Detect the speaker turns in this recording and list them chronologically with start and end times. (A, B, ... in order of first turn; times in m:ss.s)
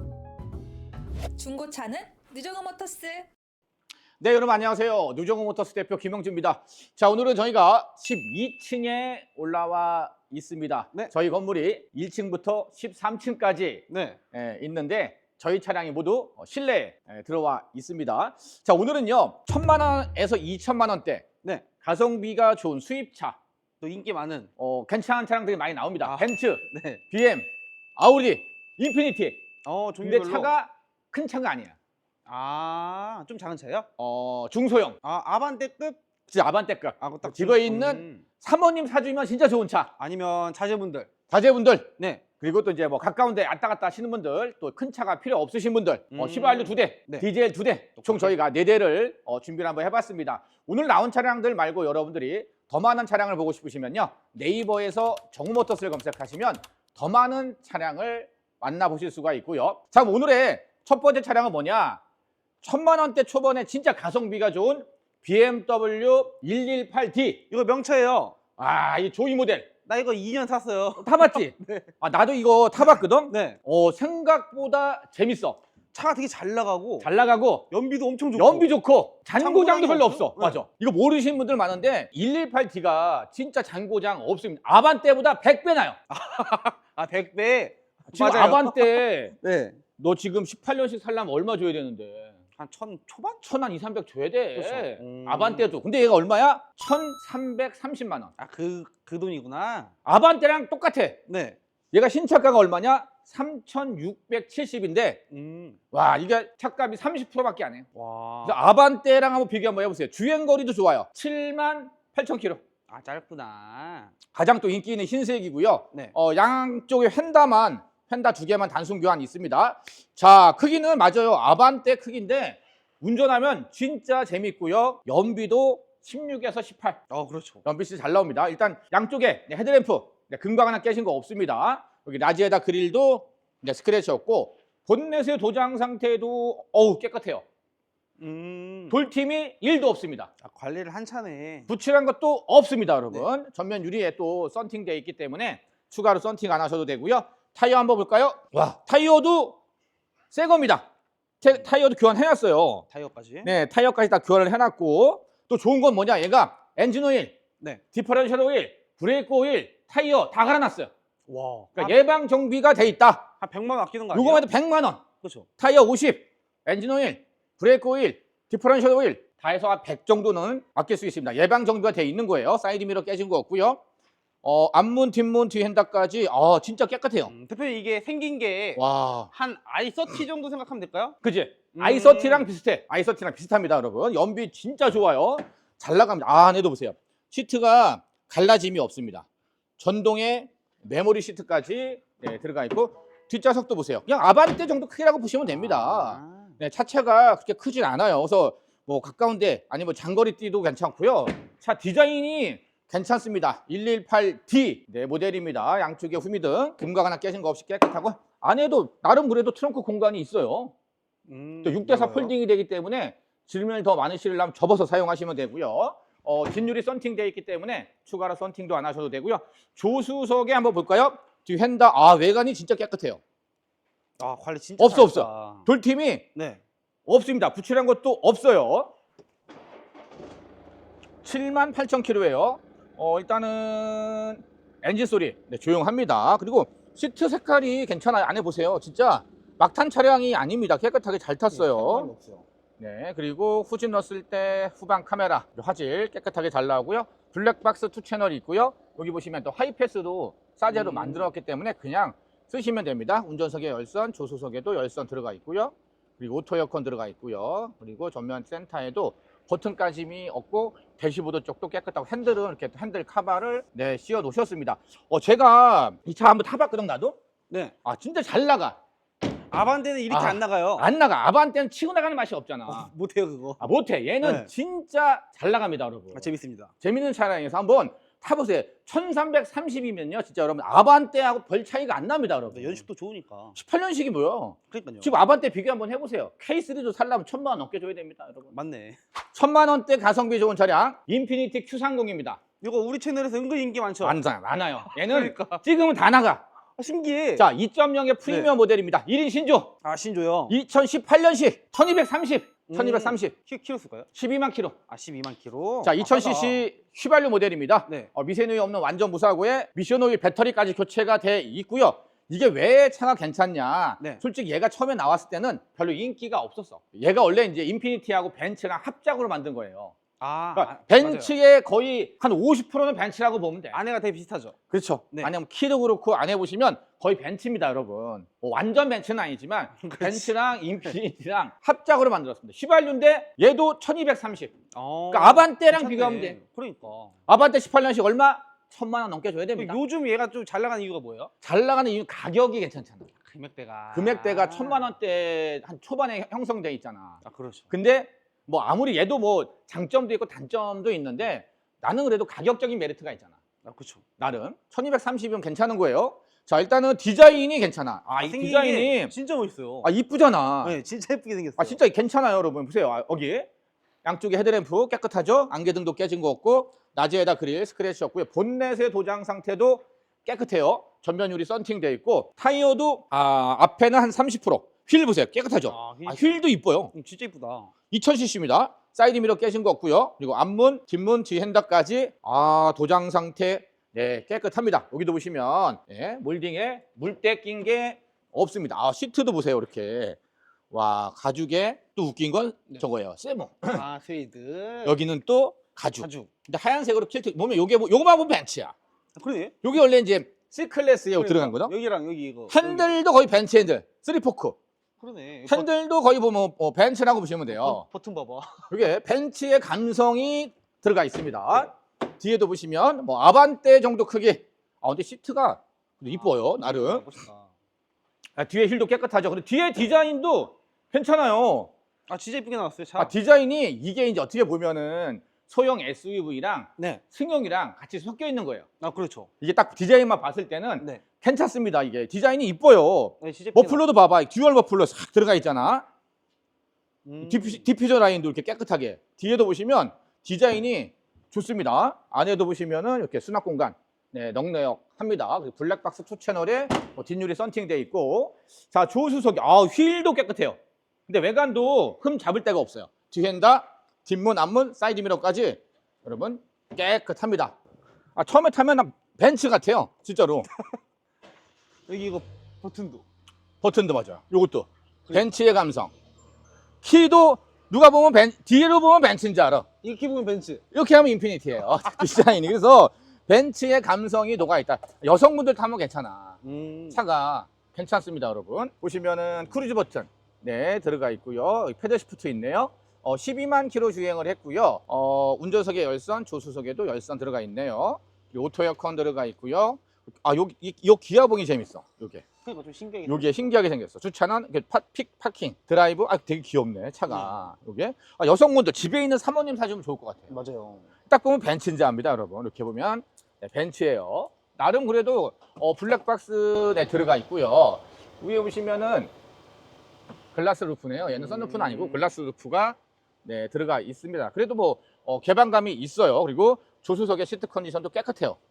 0:01.3-0:03.3 A
0:04.2-0:23.4 B
0:13.9-0:14.2 C
0:21.4-0:21.7 C
0:23.8-0:24.5 C
0:24.6-0:27.4 B
0:26.0-0:27.0 C
0:28.0-0:29.4 B
0:29.6-0:30.5 C
0:30.0-0:31.7 B
0:32.2-0:33.9 C
0:34.0-0:35.0 B
0:35.0-0:36.0 C
0:36.3-0:39.9 B
0:37.0-0:38.2 C
0:40.0-0:41.2 C
0:41.3-1:02.0 B
0:42.0-0:42.3 C
0:46.1-0:47.3 C
0:48.0-0:48.4 C
1:02.6-1:07.4 B
1:07.5-1:08.5 C
1:08.5-1:09.7 B
1:09.8-1:11.9 C
1:11.0-1:15.6 B
1:12.8-1:13.6 C
1:15.9-1:17.1 C
1:17.0-1:17.6 B
1:17.7-1:18.7 C
1:18.4-1:26.0 B
1:19.4-1:20.6 C
1:26.1-1:29.9 C
1:28.1-1:29.4 B
1:29.9-1:32.4 B
1:32.6-1:33.4 C
1:33.4-1:38.3 B
1:34.6-1:35.7 C
1:38.4-1:39.9 C
1:40.0-1:41.2 B
1:41.3-1:41.6 C
1:41.9-1:45.2 B
1:45.3-1:45.8 C
1:45.9-1:47.8 B
1:47.9-1:48.6 C
1:48.4-1:52.6 B
1:52.9-1:54.2 C
1:54.3-2:07.0 B
2:07.1-2:07.6 C
2:07.6-2:17.4 B
2:18.2-2:19.0 C
2:18.9-2:20.3 B
2:20.4-2:21.7 C
2:21.7-2:29.6 B
2:30.3-2:30.8 B
2:31.4-2:32.8 B
2:32.9-2:33.5 C
2:33.4-2:37.4 B
2:37.6-2:37.8 C
2:37.9-2:40.9 B
2:41.3-2:42.1 C
2:41.8-2:43.3 B
2:43.3-2:44.5 C
2:44.1-2:53.8 B
2:45.1-2:45.5 C
2:54.4-2:57.3 B
2:57.2-3:01.2 C
2:58.8-2:59.3 B
3:01.2-3:09.2 B
3:01.7-3:02.5 C
3:09.8-3:30.7 B
3:15.4-3:16.6 C
3:31.3-3:32.3 C
3:31.6-3:43.2 B
3:44.2-3:45.7 C
3:44.8-3:46.2 B
3:46.3-3:46.6 C
3:47.1-3:48.9 B
3:51.2-4:02.1 B
4:01.5-4:02.4 C
4:02.8-4:27.2 B
4:10.7-4:11.3 C
4:27.5-4:27.7 C
4:27.8-4:28.8 B
4:29.5-4:30.9 C
4:30.1-4:32.9 B
4:32.7-4:34.5 C
4:33.6-4:42.8 B
4:36.1-4:36.7 C
4:42.5-4:43.6 C
4:43.6-4:48.5 B
4:44.6-4:45.2 C
4:48.5-4:49.0 C
4:49.3-4:52.4 B
4:52.6-4:54.2 C
4:54.0-4:56.4 B
4:54.8-4:55.6 C
4:56.8-4:57.5 C
4:57.4-4:59.7 B
4:58.2-4:58.5 C
4:59.8-5:00.6 C
5:00.5-5:03.3 B
5:02.6-5:04.1 C
5:04.1-5:04.8 B
5:04.9-5:06.6 C
5:05.8-5:20.0 B
5:20.2-5:21.3 C
5:20.6-5:23.8 B
5:23.7-5:25.3 C
5:24.7-5:34.5 B
5:29.8-5:30.9 C
5:34.7-5:37.2 C
5:35.1-5:36.4 B
5:37.3-5:39.8 B
5:39.6-5:41.3 C
5:41.4-5:43.1 B
5:43.2-5:44.9 C
5:43.9-5:47.2 B
5:47.2-5:47.7 C
5:47.7-5:53.4 B
5:53.6-5:54.0 C
5:54.2-5:59.1 B
5:58.1-5:59.9 C
5:59.8-6:00.8 B
6:00.6-6:01.8 C
6:01.6-6:03.5 B
6:04.0-6:16.9 B
6:15.7-6:17.8 C
6:17.8-6:30.2 B
6:30.7-6:33.8 B
6:33.7-6:35.0 C
6:34.8-6:38.7 B
6:36.0-6:36.4 C
6:39.2-6:39.7 C
6:39.6-6:41.7 B
6:41.2-6:42.9 C
6:42.5-6:44.6 B
6:45.0-6:45.7 C
6:45.5-6:47.8 B
6:47.4-6:48.7 C
6:48.7-6:57.1 B
6:56.1-6:57.5 C
6:58.4-7:01.7 B
7:02.1-7:03.1 C
7:03.0-7:08.6 B
7:06.8-7:07.0 C
7:08.8-7:09.3 C
7:09.4-7:15.8 B
7:10.8-7:11.0 C
7:13.2-7:13.8 C
7:17.0-7:17.7 C
7:17.2-7:37.5 B
7:38.2-7:40.5 B
7:41.9-7:43.0 C
7:43.6-7:45.9 B
7:46.8-7:49.7 B
7:49.8-7:50.6 C
7:50.7-7:56.4 B
7:56.4-7:57.0 C
7:56.9-8:12.3 B
8:12.3-8:13.4 C
8:13.0-8:20.3 B
8:17.1-8:17.5 C
8:20.3-8:20.9 C
8:21.0-8:29.1 B
8:30.3-8:38.4 B
8:31.1-8:32.1 C